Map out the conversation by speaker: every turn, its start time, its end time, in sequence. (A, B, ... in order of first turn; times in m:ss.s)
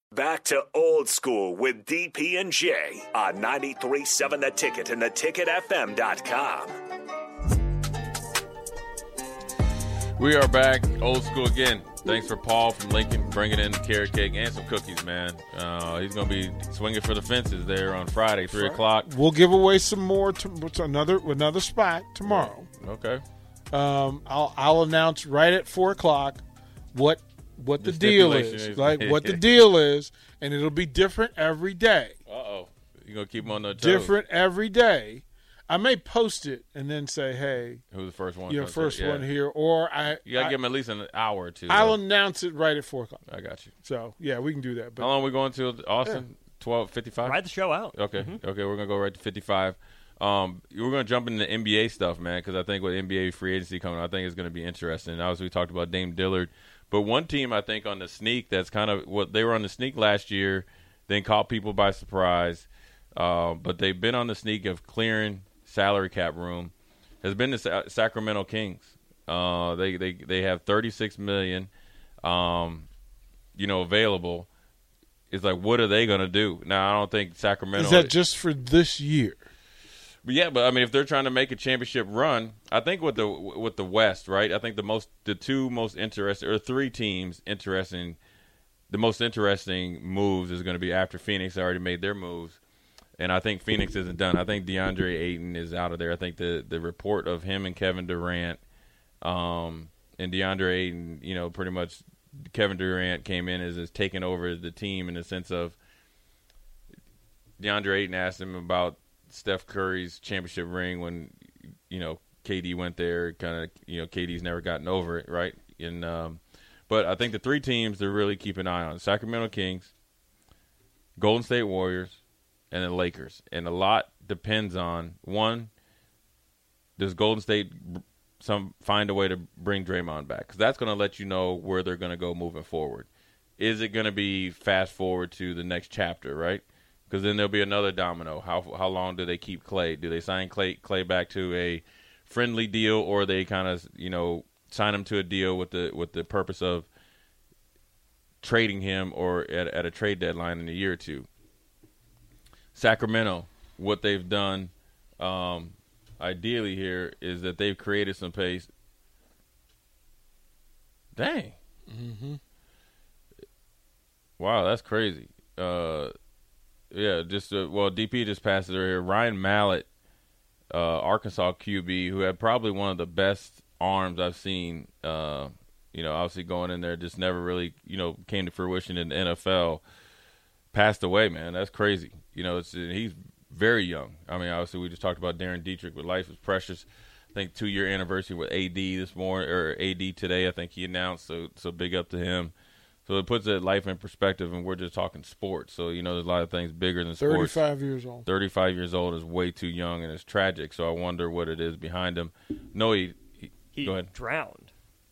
0:00.1-0:06.7 A
0:10.2-0:19.1 B
0:18.5-0:22.7 C
0:22.2-0:23.2 B
0:23.7-0:26.4 C
0:26.9-0:32.1 C
0:27.8-0:29.4 B
0:32.3-0:34.2 B
0:33.7-0:37.8 C
0:37.9-0:39.3 B
0:38.5-0:40.6 C
0:40.2-0:42.0 B
0:41.7-0:43.2 C
0:43.3-0:43.7 B
0:43.8-0:45.1 C
0:45.0-0:47.4 B
0:47.3-0:48.4 D
0:47.9-1:06.7 B
1:07.2-1:11.7 B
1:12.2-1:12.9 B
1:13.6-1:14.5 B
1:15.3-1:18.1 B
1:17.7-1:19.4 C
1:20.2-1:28.2 B
1:28.9-1:32.6 B
1:33.2-1:38.6 B
1:39.2-1:45.8 B
1:47.6-1:51.4 B
1:51.9-1:59.9 B
2:01.2-2:02.2 B
2:02.7-2:05.7 B
2:07.0-2:26.9 B
2:28.4-2:31.3 B
2:32.7-2:38.7 B
2:41.2-2:41.5 B
2:41.9-2:42.4 C
2:44.4-2:46.1 B
2:46.9-2:49.9 B
2:50.7-2:59.8 B
3:00.7-3:12.5 B
3:13.0-3:17.6 B
3:17.2-3:18.2 C
3:18.2-3:24.1 B
3:23.7-3:24.7 D